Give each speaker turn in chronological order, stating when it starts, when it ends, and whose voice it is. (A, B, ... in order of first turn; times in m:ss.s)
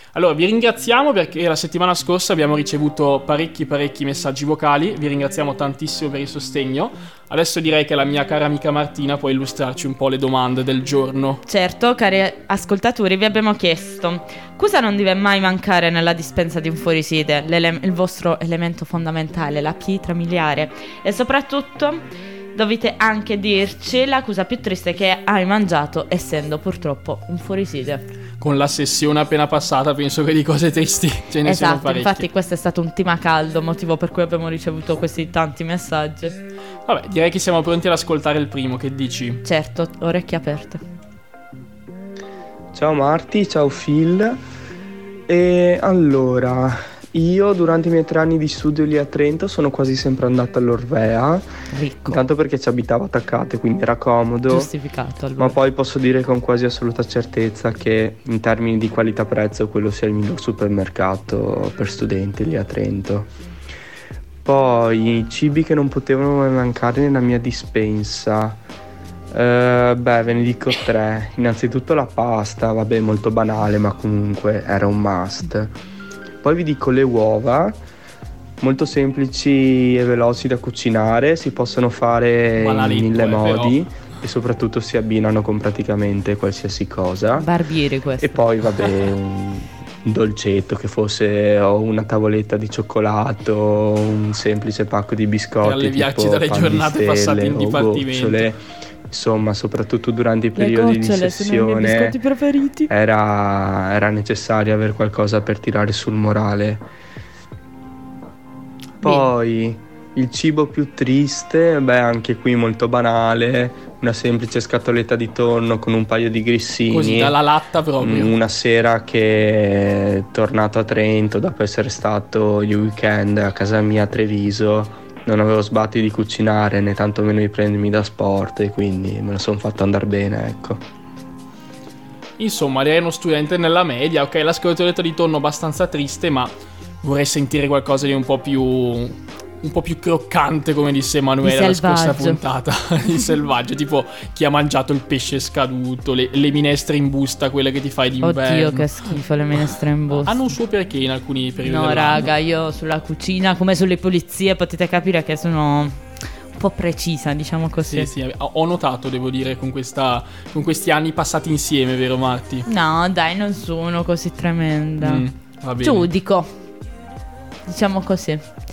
0:00.1-0:11.4 A
0:11.5-0:22.0 B
0:22.5-0:28.0 B
0:28.4-0:32.2 A
0:31.4-0:36.4 B
0:36.8-0:39.4 A
0:39.4-0:40.8 B
0:42.7-0:44.4 C
0:45.3-0:51.4 C
0:51.7-0:52.2 B
0:52.1-0:54.7 C
0:54.5-0:55.6 B
0:55.4-1:03.3 C
1:04.4-1:08.6 C
1:09.3-1:15.7 C
1:16.4-1:17.8 C
1:18.6-1:27.5 C
1:22.6-1:23.8 A
1:27.4-1:28.4 B
1:28.2-1:42.2 C
1:35.6-1:38.5 A
1:40.6-1:42.9 B
1:42.9-1:46.8 C
1:49.0-1:57.4 C
1:49.0-1:49.3 B
1:56.9-1:58.4 A
1:58.0-2:10.8 C
2:12.4-2:29.2 A
2:21.4-2:22.4 B
2:28.2-2:30.4 B
2:30.2-2:32.3 A
2:31.6-2:38.1 B
2:37.8-2:42.6 A
2:42.6-2:45.2 B
2:45.0-2:46.1 A
2:45.8-2:46.5 B
2:47.6-2:48.4 B